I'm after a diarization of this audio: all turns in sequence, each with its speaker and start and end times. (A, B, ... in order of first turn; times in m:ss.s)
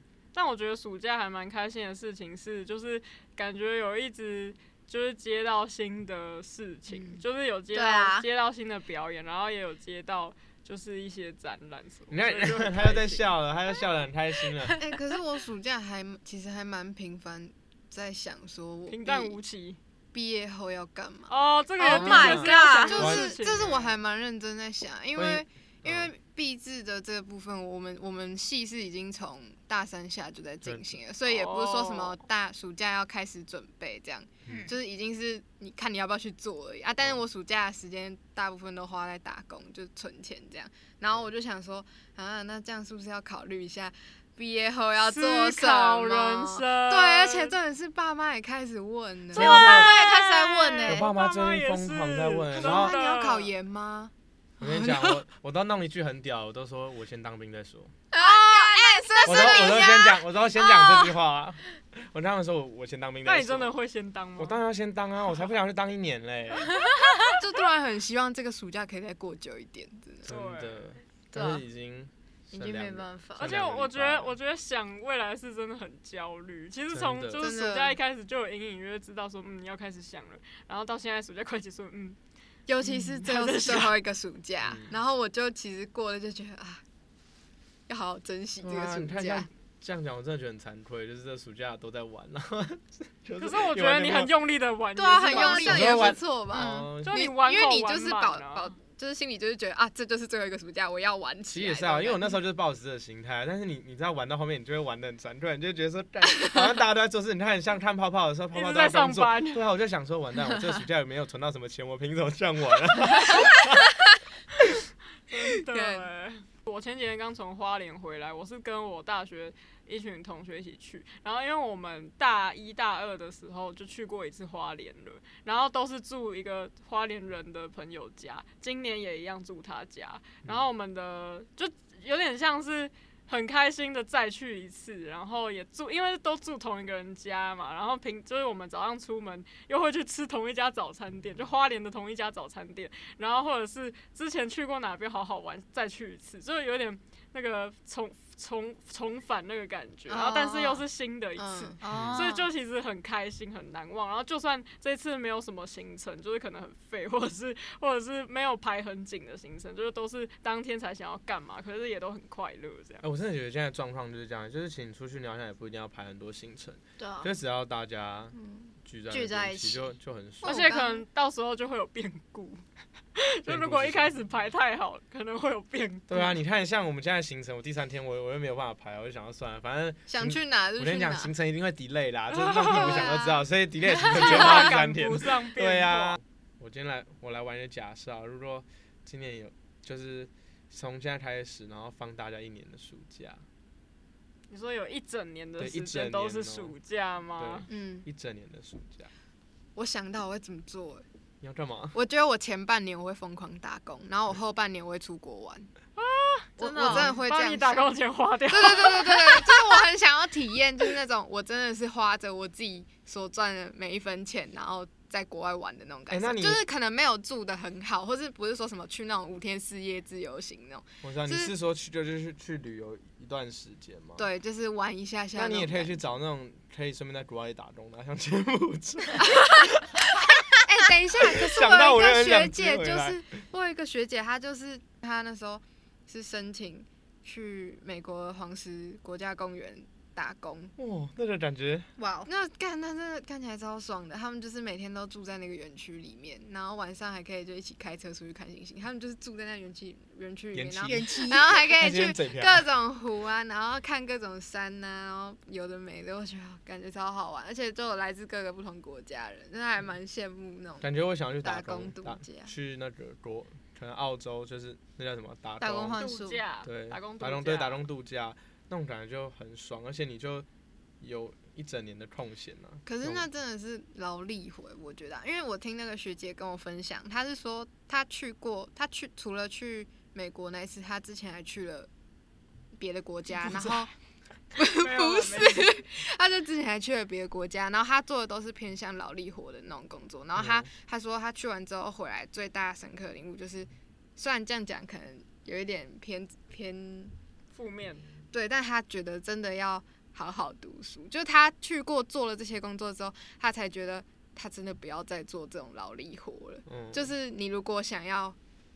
0:00.3-0:13.3 A
0:06.9-0:07.2 B
0:07.7-0:08.2 C
0:12.1-0:14.8 D
0:14.8-0:19.4 B
0:18.9-0:19.8 A
0:20.1-0:21.3 B
0:21.3-0:24.0 A
0:21.8-0:23.2 C
0:21.9-0:23.3 D
0:22.0-0:49.6 B
0:25.2-0:26.1 D
0:30.6-0:31.0 D
0:31.2-0:32.2 A
0:34.5-0:34.7 C
0:45.0-0:47.6 A
0:49.3-0:49.9 D
0:49.3-0:51.1 C
0:49.4-0:53.5 A
0:50.9-0:53.0 D
0:52.6-0:55.2 B
0:54.6-0:57.9 D
0:58.1-1:00.2 B
0:58.2-1:00.0 C
0:59.2-1:03.7 D
1:00.8-1:01.1 C
1:03.2-1:04.6 A
1:04.4-1:06.7 D
1:06.8-1:07.3 C
1:07.3-1:10.3 B
1:10.3-1:10.9 A
1:10.3-1:14.4 D
1:11.3-1:11.6 C
1:12.5-1:13.5 C
1:13.4-1:22.2 A
1:16.9-1:17.5 D
1:17.4-1:18.0 B
1:22.7-1:26.8 B
1:23.1-1:24.0 A
1:24.6-1:24.9 D
1:27.9-1:29.5 B
1:28.6-1:34.3 D
1:33.4-1:36.1 A
1:35.0-1:36.9 C
1:35.1-1:42.4 B
1:35.6-1:37.2 D
1:37.0-1:38.8 A
1:41.5-1:53.9 D
1:48.5-1:49.6 A
1:55.3-2:43.0 A
1:55.7-1:56.1 B
2:30.1-2:30.8 C
2:31.4-2:31.8 B
2:31.8-2:32.5 C
2:31.9-2:32.3 D
2:43.0-2:50.6 D
2:47.0-2:47.3 C
2:48.4-2:48.7 B
2:49.1-2:49.9 C
2:50.4-2:51.0 B
2:50.4-2:52.6 A
2:53.2-2:56.4 A
2:53.5-2:54.2 D
2:56.1-3:13.4 D
3:00.1-3:01.3 B
3:02.3-3:03.2 A
3:02.6-3:03.4 B
3:04.0-3:06.2 A
3:14.5-3:17.7 A
3:15.6-3:16.7 D
3:17.4-3:19.1 D
3:17.7-3:18.1 B
3:19.8-3:21.0 B
3:21.4-3:22.0 D
3:21.9-3:25.7 B
3:26.0-3:29.8 A
3:26.6-3:27.2 C
3:26.6-3:27.9 B
3:28.5-3:41.5 B
3:36.1-3:36.6 D
3:41.0-3:44.3 D
3:44.2-3:46.0 B
3:45.4-3:49.9 D
3:49.2-3:49.8 B
3:50.4-4:00.7 B
3:51.2-3:53.2 D
4:00.8-4:01.9 D
4:02.0-4:02.3 C
4:02.3-4:20.9 B
4:10.5-4:12.7 D
4:10.9-4:11.7 C
4:20.8-4:26.0 D
4:21.4-4:22.5 B
4:25.6-4:26.4 C
4:26.0-4:27.8 A
4:26.6-4:30.5 D
4:31.0-4:33.2 D
4:32.9-4:41.9 B
4:42.8-4:43.9 B
4:44.6-4:57.1 B
4:44.6-4:45.8 A
4:50.4-4:50.7 D
4:57.5-4:58.0 A
4:58.3-5:08.4 B
5:06.7-5:07.1 D